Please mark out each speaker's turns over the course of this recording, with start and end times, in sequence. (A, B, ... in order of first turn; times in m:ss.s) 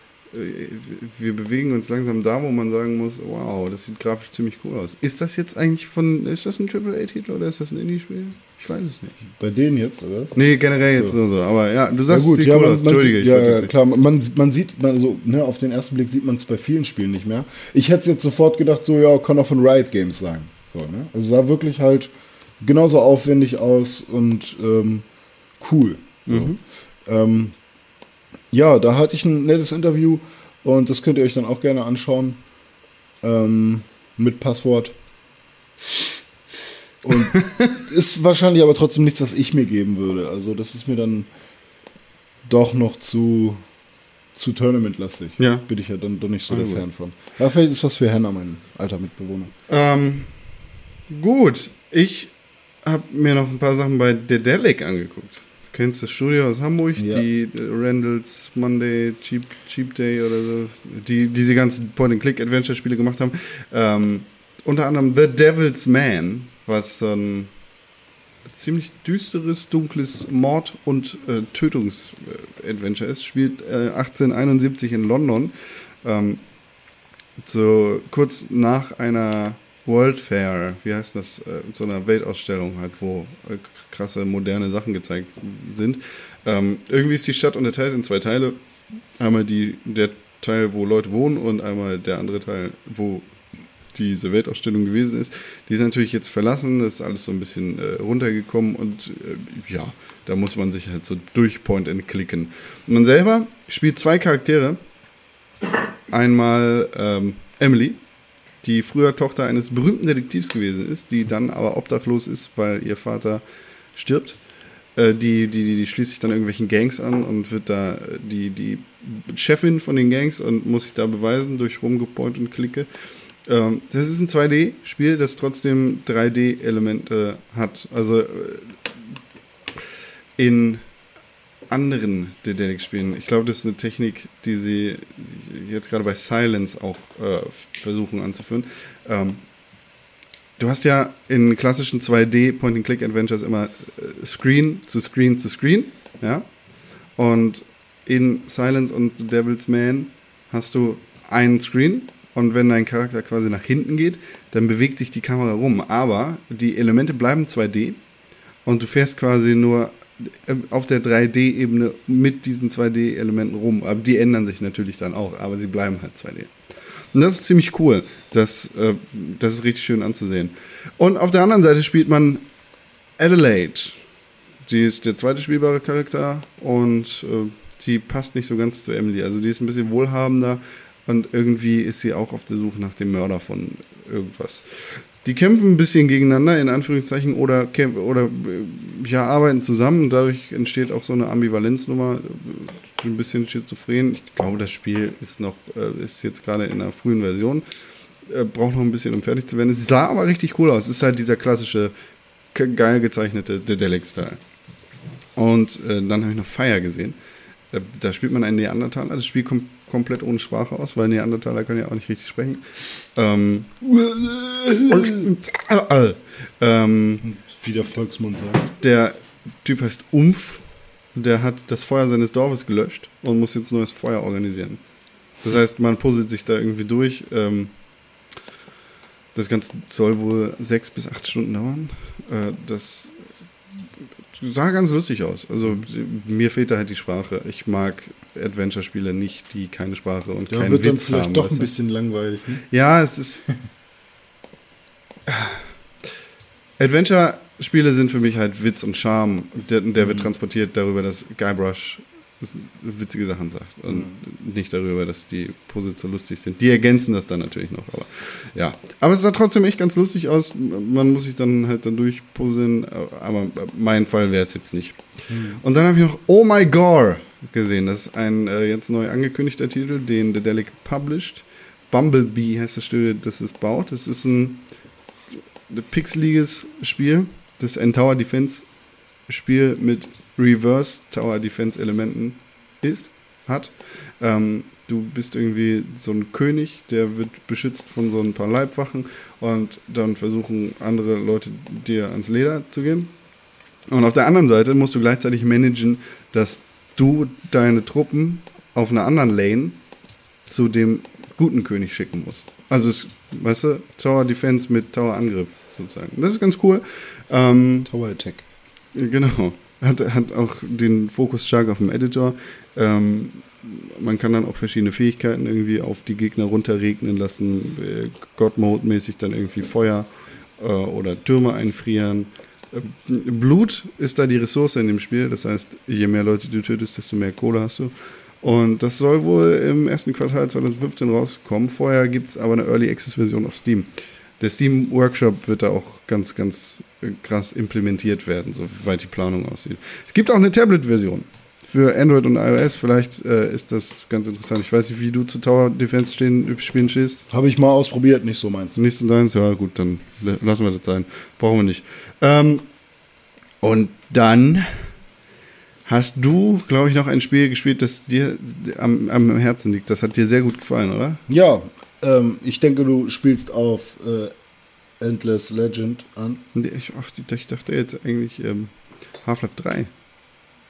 0:00.3-0:09.2 A
0:09.2-0:11.2 B
0:10.4-0:13.7 A
0:12.1-0:25.1 B
0:25.6-0:26.5 B
0:26.3-0:26.6 A
0:27.1-0:27.6 B
0:28.5-0:32.4 B
0:33.2-0:35.0 B
0:37.0-0:41.3 B
0:42.4-0:43.6 B
0:44.4-0:49.5 B
0:45.4-0:45.7 A
0:46.5-0:46.8 A
0:49.7-0:50.3 A
0:51.1-1:07.5 A
0:57.0-0:57.3 B
1:08.5-1:16.4 A
1:17.4-1:28.6 A
1:29.2-1:33.3 A
1:33.9-1:44.8 A
1:46.1-1:48.0 A
1:48.6-1:53.4 A
1:54.0-1:54.4 A
1:55.0-2:02.9 A
2:03.5-2:08.8 A
2:10.4-2:10.8 A
2:11.7-2:19.4 A
2:20.6-2:26.5 A
2:27.2-2:38.0 A
2:38.7-2:46.5 A
2:47.1-2:52.4 A
2:53.2-2:54.0 A
2:54.7-3:17.6 A
3:18.3-3:21.9 A
3:22.5-3:24.4 A
3:25.4-3:27.2 A
3:27.7-3:32.6 A
3:33.2-3:33.7 A
3:33.8-3:35.3 B
3:34.9-3:37.2 A
3:37.2-3:38.7 B
3:38.8-3:40.6 A
3:41.2-3:44.8 A
3:45.4-3:47.7 A
3:49.4-3:53.2 A
3:54.3-4:01.7 A
4:00.5-4:02.6 B
4:02.7-4:03.4 A
4:05.3-4:05.7 A
4:06.8-4:25.0 A
4:25.3-4:25.6 B
4:25.6-4:34.6 A
4:35.7-4:38.7 A
4:39.3-4:53.1 A
4:53.9-4:59.8 A
5:00.5-5:07.9 A
5:07.9-5:08.4 B
5:08.9-5:47.2 A
5:47.3-5:48.8 B
5:48.8-5:52.7 A
5:53.6-5:54.9 A
5:55.9-6:01.2 A
6:01.3-6:04.3 B
6:05.0-6:06.4 B
6:06.6-6:08.7 A
6:09.2-6:09.9 A